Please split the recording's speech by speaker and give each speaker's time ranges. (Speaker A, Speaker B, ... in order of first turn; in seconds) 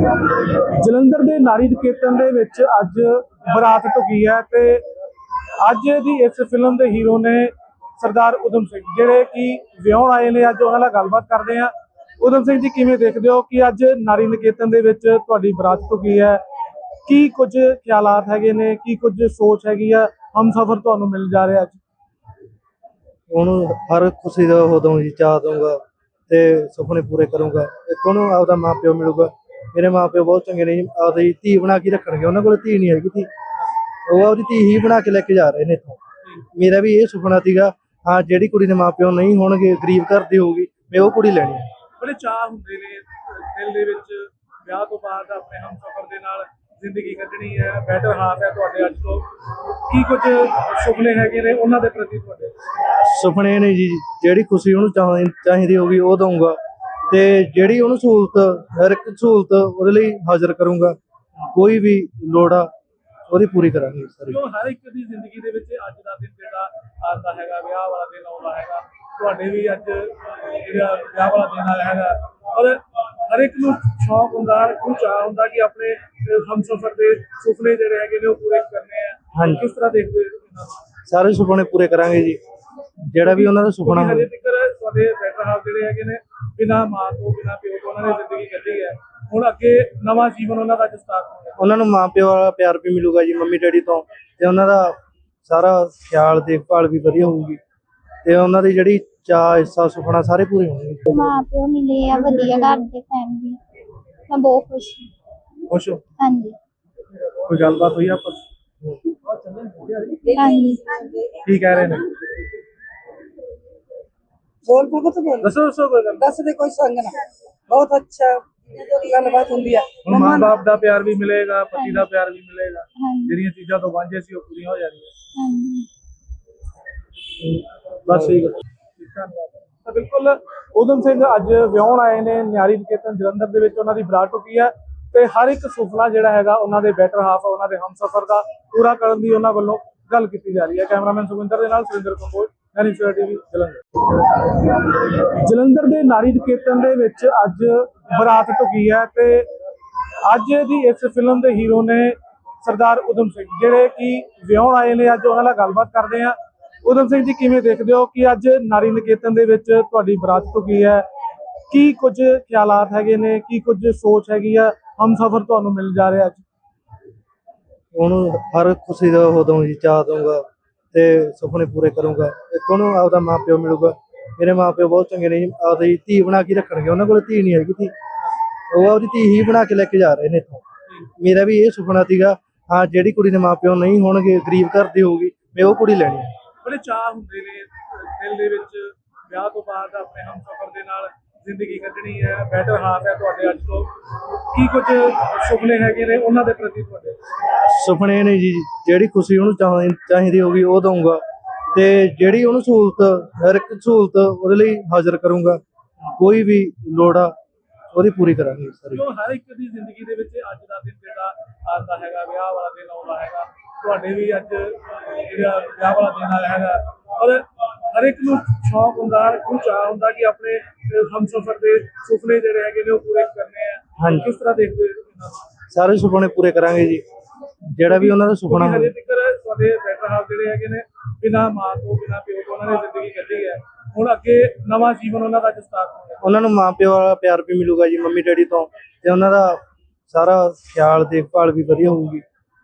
Speaker A: 0.5-4.9, 5.6-16.4, 17.1-21.8, 42.0-49.3, 49.9-52.5, 64.3-80.8, 83.2-91.6, 105.7-106.0, 107.5-108.4, 111.4-112.1, 115.4-116.3, 120.0-125.1, 127.5-143.8, 145.1-149.5, 150.2-161.1, 161.7-166.4, 186.6-193.9, 194.5-197.2, 208.9-225.4, 227.9-236.2
Speaker B: 23.3-33.3, 34.1-41.7, 52.9-56.6, 57.1-61.0, 61.5-62.7, 63.3-64.4, 79.3-79.7, 81.1-82.4, 83.1-84.3, 91.6-97.6, 98.2-101.2, 167.9-177.9, 178.7-186.3, 197.6-201.2, 201.7-205.6, 206.2-207.3, 207.9-209.0, 224.0-224.3, 225.7-227.1, 227.7-228.9, 236.2-242.2
Speaker C: 101.1-103.6, 104.3-105.1, 106.2-106.6, 110.3-110.9, 121.8-122.1, 123.0-123.4, 125.3-125.9
Speaker D: 109.5-111.4, 114.7-115.5, 116.2-120.5